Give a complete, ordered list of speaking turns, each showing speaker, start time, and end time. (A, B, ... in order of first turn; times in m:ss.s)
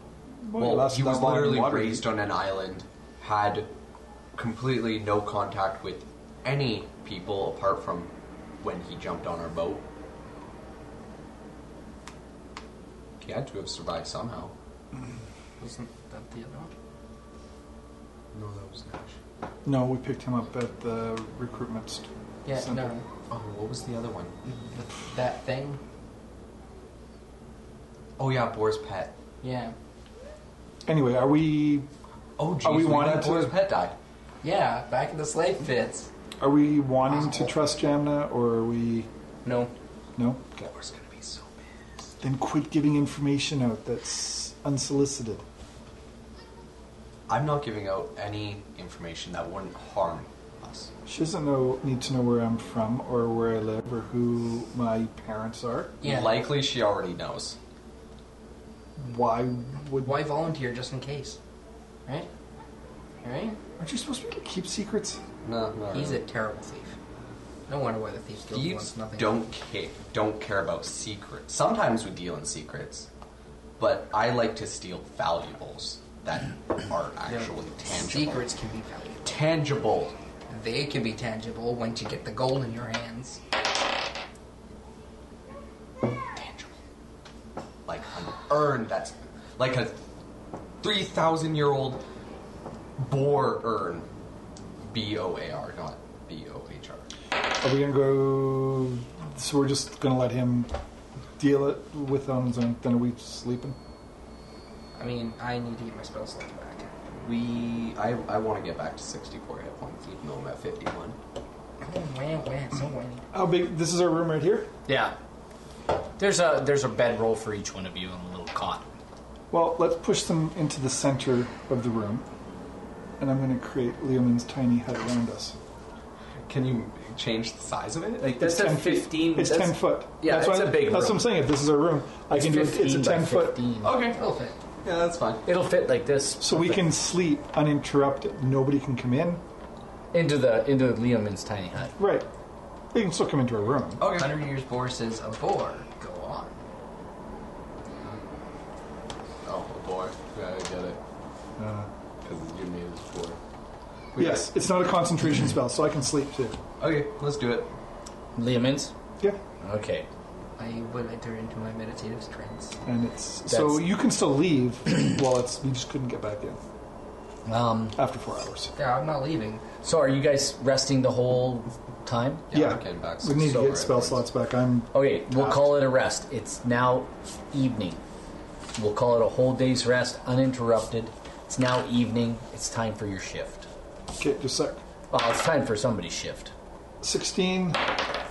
0:00.4-0:02.1 A
0:00.6-0:03.7 B
0:04.4-0:09.8 B
0:13.2-0:14.5 B
0:15.6-0:16.7 C
0:18.3-0:19.2 B
0:19.6-0:22.9 A
0:22.4-0:23.0 C
0:23.3-0:24.4 B
0:24.4-0:25.8 C
0:28.2-0:29.2 B
0:29.4-0:29.7 C
0:30.8-0:31.9 A
0:32.4-0:34.0 B
0:32.6-0:33.6 A
0:34.4-0:36.1 C
0:36.4-0:39.1 A
0:37.0-0:37.6 C
0:39.4-0:39.7 C
0:40.2-0:40.7 A
0:40.7-0:41.6 B
0:42.2-0:45.4 A
0:47.3-0:50.9 B
0:51.0-0:56.0 A
0:56.0-0:57.6 B
0:56.0-0:56.4 C
0:59.0-1:00.2 A
0:59.9-1:01.4 C
1:03.2-1:03.6 C
1:03.8-1:05.2 A
1:05.4-1:06.2 B
1:05.9-1:07.0 C
1:07.7-1:09.4 C
1:08.5-1:13.1 B
1:13.8-1:18.5 B
1:17.2-1:19.4 C
1:19.2-1:20.2 B
1:20.5-1:23.4 C
1:26.3-1:26.7 B
1:27.9-1:30.0 B
1:30.8-1:32.0 B
1:33.0-1:34.1 B
1:34.9-1:37.1 B
1:37.6-1:40.7 A
1:41.4-1:43.8 A
1:45.0-1:46.9 C
1:47.1-1:51.2 B
1:51.8-1:53.2 C
1:53.3-1:54.7 A
1:54.9-1:55.2 D
1:56.2-1:58.9 D
1:59.5-2:02.2 A
2:03.2-2:05.6 A
2:06.4-2:08.4 B
2:08.2-2:11.3 D
2:08.4-2:13.7 A
2:12.3-2:14.0 D
2:13.8-2:14.2 B
2:14.0-2:14.6 C
2:14.8-2:15.4 B
2:15.4-2:16.9 D
2:16.4-2:19.4 A
2:20.1-2:22.0 D
2:22.0-2:22.3 A
2:22.9-2:24.1 A
2:24.0-2:24.4 B
2:24.1-2:26.6 C
2:29.4-2:31.0 B
2:31.6-2:31.9 A
2:32.2-2:33.4 B
2:34.1-2:34.4 B
2:34.2-2:36.6 A
2:36.8-2:37.7 B
2:38.3-2:38.9 D
2:39.6-2:40.1 D
2:40.6-2:42.8 C
2:42.8-2:46.6 A
2:43.5-2:43.9 D
2:47.4-2:48.0 D
2:47.9-2:48.7 A
2:48.7-2:49.6 C
2:49.8-2:52.4 D
2:52.5-2:54.2 B
2:52.5-2:55.8 A
2:54.9-2:58.0 D
2:58.8-3:03.7 D
3:04.2-3:04.8 A
3:05.1-3:06.5 D
3:07.0-3:07.9 A